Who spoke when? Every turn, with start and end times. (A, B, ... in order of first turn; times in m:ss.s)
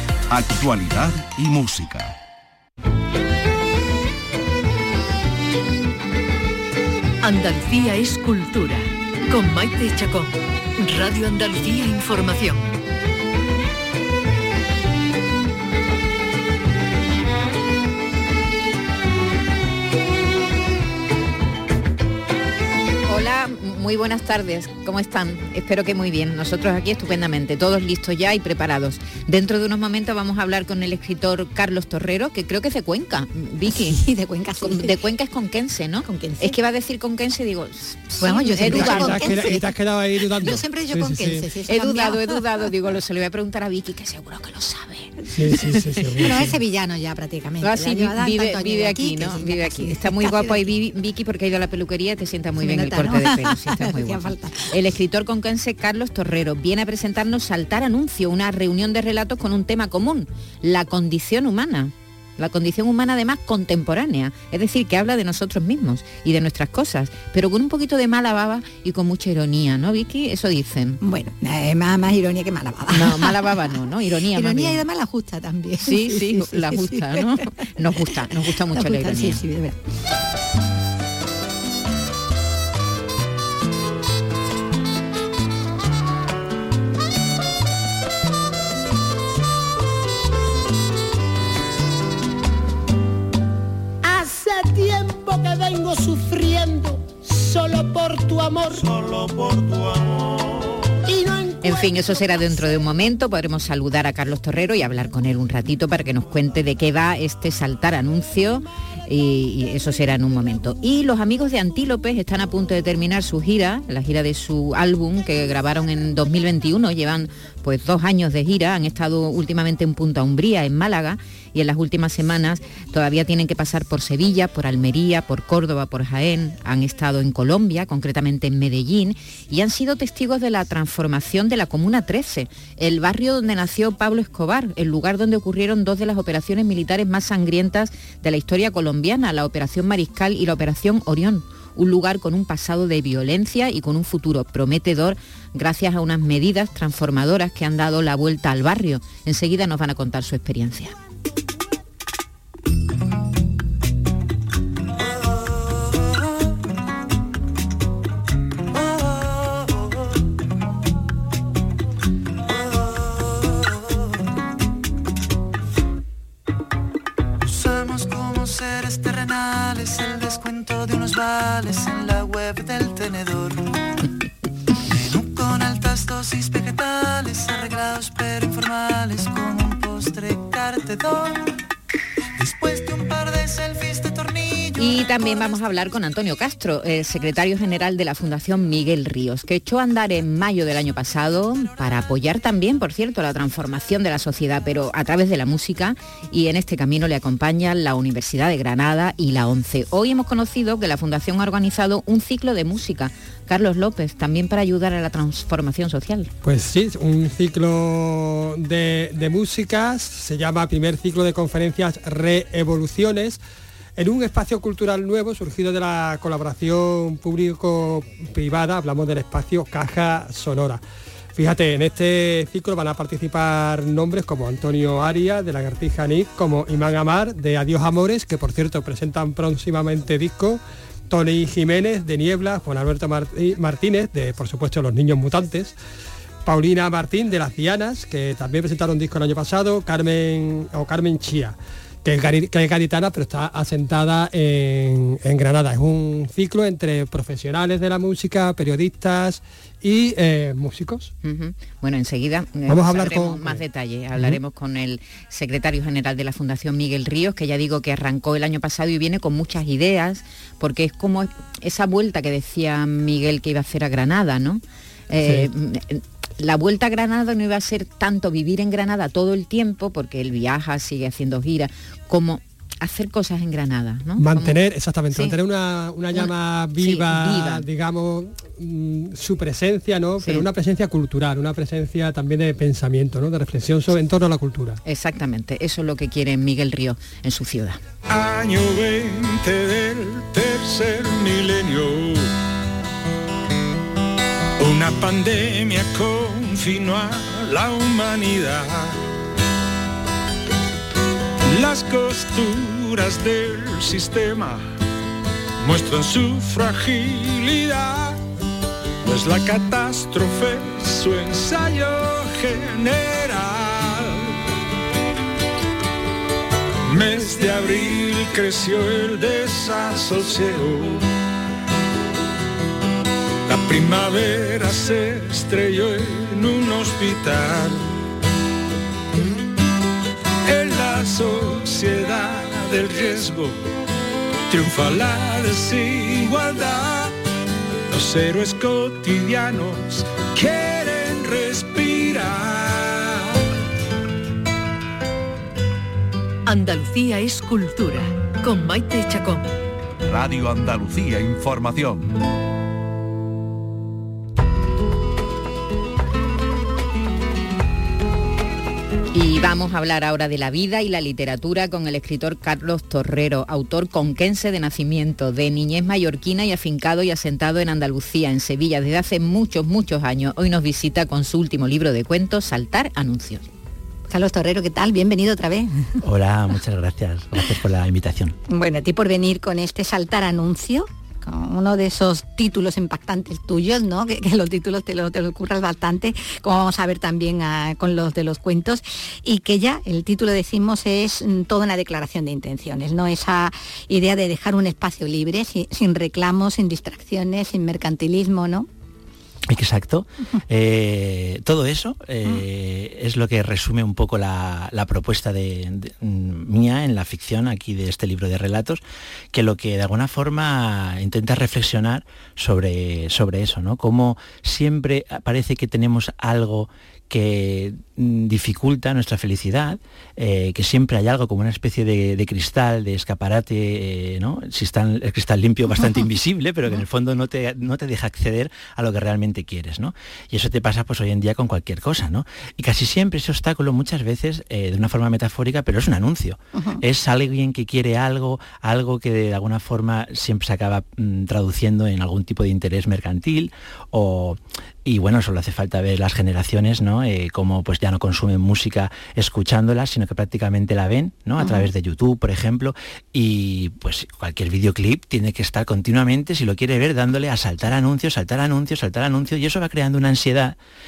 0:00.3-0:02.1 A
0:07.2-0:12.7 B
0:23.1-0:34.0 C
0:33.7-0:35.0 D
0:34.6-0:39.4 C
0:36.0-0:36.6 D
0:38.2-0:39.6 D
0:38.6-0:41.5 E
0:40.2-0:42.5 D
0:41.7-0:45.3 C
0:45.3-0:46.6 E
0:46.2-0:50.7 D
0:47.6-1:11.0 C
0:52.6-0:54.7 D
1:11.0-1:17.4 D
1:12.9-1:14.8 C
1:15.8-1:19.4 C
1:18.3-1:19.8 D
1:34.0-1:39.3 F
1:41.0-1:42.4 F
1:41.6-2:30.9 C
2:38.7-2:39.7 G
2:42.5-2:43.7 G
2:47.4-2:53.7 G
2:54.9-3:01.5 G
3:02.4-3:05.6 G
3:04.8-3:26.3 C
3:26.4-3:33.4 E
3:34.0-3:40.8 E
3:41.3-3:55.7 E
3:56.4-4:11.1 E
4:11.2-4:34.6 C
4:12.7-4:13.6 E
4:34.2-4:44.8 E
4:36.1-4:37.6 C
4:44.8-4:47.8 C
4:48.1-4:52.3 H
4:54.6-4:59.0 H
5:01.4-5:04.6 H
5:05.6-5:08.2 H
5:09.0-5:14.4 H
5:16.8-5:21.0 H
5:23.4-5:27.8 H
5:30.4-5:33.6 H
5:34.5-5:37.1 H
5:37.9-5:43.4 H
5:46.4-5:49.5 B
5:50.0-5:52.1 A
5:59.1-6:13.4 C
6:14.1-6:16.0 D
6:16.0-6:18.4 I
6:18.5-6:38.7 D
6:39.5-7:40.6 I
7:16.5-7:16.8 D
7:31.4-7:31.7 D